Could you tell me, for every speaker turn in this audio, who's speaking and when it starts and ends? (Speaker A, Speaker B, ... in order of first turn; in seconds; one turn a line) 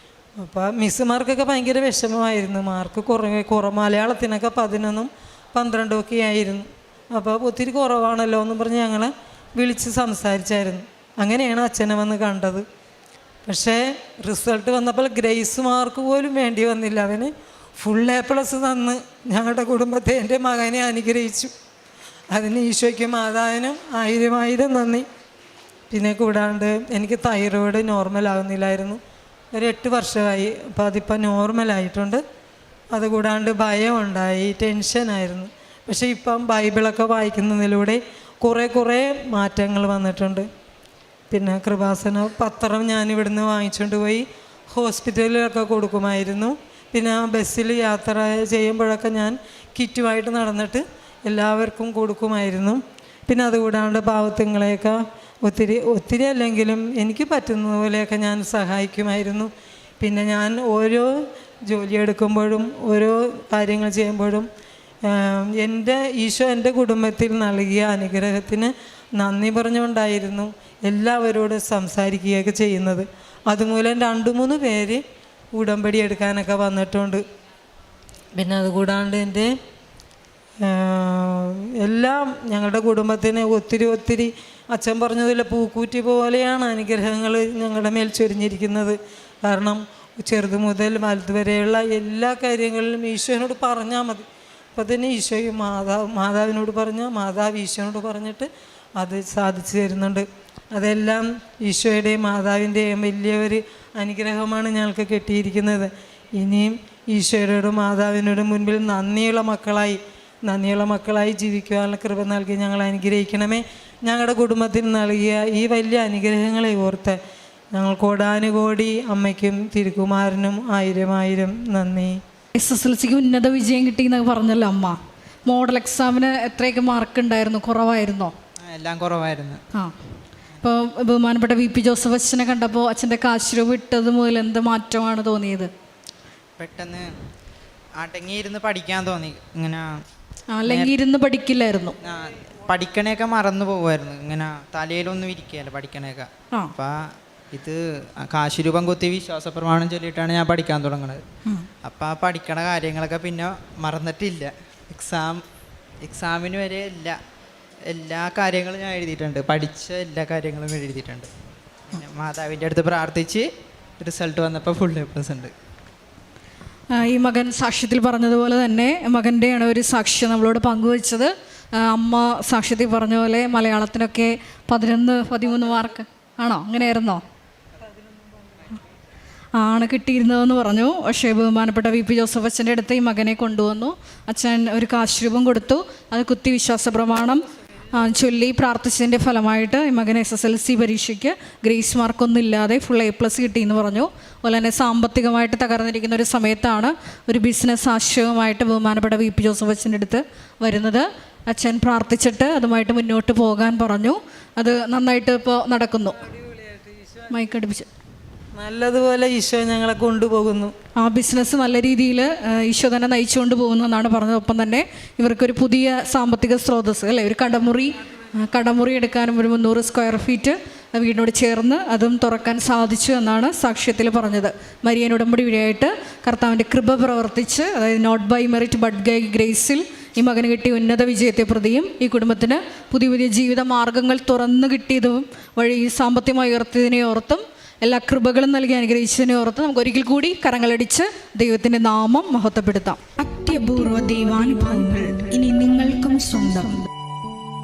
Speaker A: 0.4-12.6
Speaker A: 13.4-21.5
Speaker A: 22.3-25.0
Speaker A: 25.9-29.0
Speaker A: 29.5-32.2
Speaker A: 32.9-40.5
Speaker A: 41.3-64.5
Speaker A: 65.0-75.0
Speaker A: 75.5-77.2
Speaker A: 78.3-79.5
Speaker A: 80.6-117.2
Speaker A: 117.7-122.2
Speaker B: 122.5-128.3
Speaker C: 128.6-129.6
Speaker B: 130.6-135.7
Speaker C: 136.6-137.1
Speaker C: 138.0-139.9
Speaker B: 140.5-141.9
Speaker C: 140.7-140.9
Speaker C: 142.0-147.0
Speaker C: 147.5-151.2
Speaker C: 151.8-155.4
Speaker C: 156.0-157.2
Speaker C: 157.9-161.3
Speaker C: 161.9-163.5
Speaker C: 164.0-165.5
Speaker B: 166.9-177.2
Speaker B: 179.5-206.3
Speaker B: 207.3-207.9
Speaker A: 208.6-210.7
Speaker B: 211.0-243.0
Speaker D: 243.2-246.9